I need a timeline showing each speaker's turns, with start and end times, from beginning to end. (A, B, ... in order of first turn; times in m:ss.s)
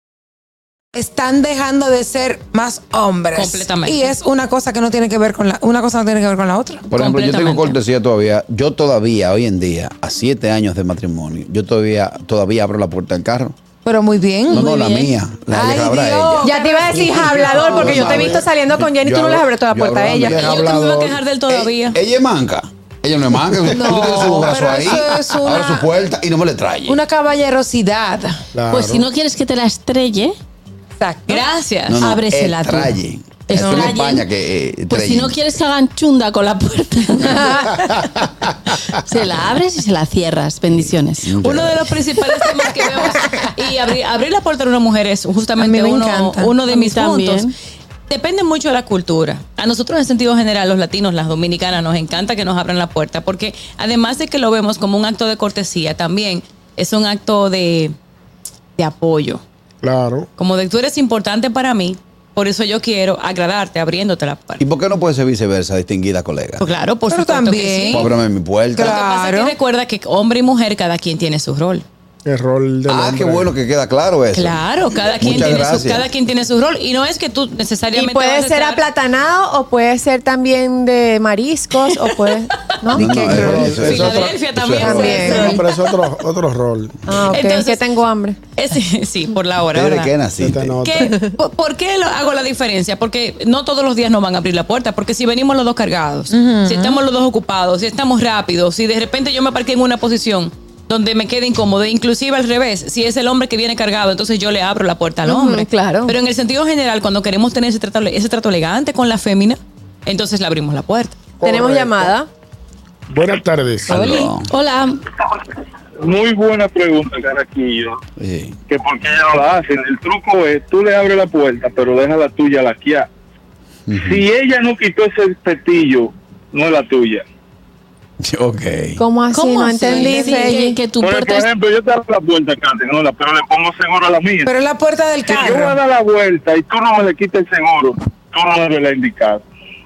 0:00.9-0:06.9 A
0:03.3-0:04.1 B
0:06.9-0:13.6 C
0:06.9-0:07.8 B
0:13.8-0:14.7 A
0:14.5-0:16.5 C
0:14.6-0:15.1 D
0:15.5-0:18.0 A
0:16.4-0:20.5 E
0:17.6-0:20.8 C
0:17.8-0:18.4 F
0:20.2-0:21.2 F
0:20.4-0:22.0 B
0:21.5-0:27.0 C
0:23.6-0:25.9 A
0:26.9-0:28.4 A
0:28.5-0:29.0 F
0:28.7-0:30.3 D
0:31.0-0:31.4 A
0:31.3-0:32.9 B
0:31.9-0:35.4 C
0:33.5-0:34.2 D
0:33.6-0:33.9 A
0:34.9-0:37.9 D
0:39.0-0:41.3 D
0:40.7-0:41.9 C
0:41.4-0:47.5 B
0:45.6-0:46.6 A
0:46.6-0:47.5 D
0:48.1-0:57.9 B
0:58.8-0:59.4 B
0:59.8-1:00.3 F
1:00.4-1:04.6 B
1:04.6-1:06.6 C
1:06.6-1:08.1 B
1:07.1-1:08.1 A
1:07.9-1:09.0 C
1:08.7-1:09.5 A
1:08.8-1:11.8 B
1:12.2-1:13.5 F
1:12.9-1:14.6 C
1:14.3-1:18.8 B
1:15.2-1:16.0 C
1:17.9-1:23.5 E
1:22.9-1:23.8 A
1:22.9-1:25.3 C
1:23.3-1:24.4 F
1:23.8-1:25.6 B
1:24.8-1:25.6 E
1:25.0-1:25.4 A
1:25.2-1:27.0 F
1:27.1-1:28.4 E
1:27.3-1:27.8 B
1:28.6-1:30.1 B
1:29.7-1:30.8 C
1:30.4-1:31.2 F
1:30.8-1:51.2 B
1:36.3-1:37.0 A
1:45.2-1:46.1 E
1:51.4-1:52.1 F
1:51.4-1:52.3 E
1:53.1-1:54.1 F
1:53.9-1:54.5 C
1:54.0-1:55.0 D
1:56.0-1:58.0 G
1:58.2-1:58.6 C
1:58.7-2:03.1 G
2:03.9-2:04.2 C
2:03.9-2:07.2 G
2:08.2-2:09.0 C
2:09.0-2:10.8 E
2:09.3-2:11.5 D
2:09.8-2:10.7 A
2:11.0-2:14.5 G
2:14.4-2:15.8 A
2:15.3-2:19.4 G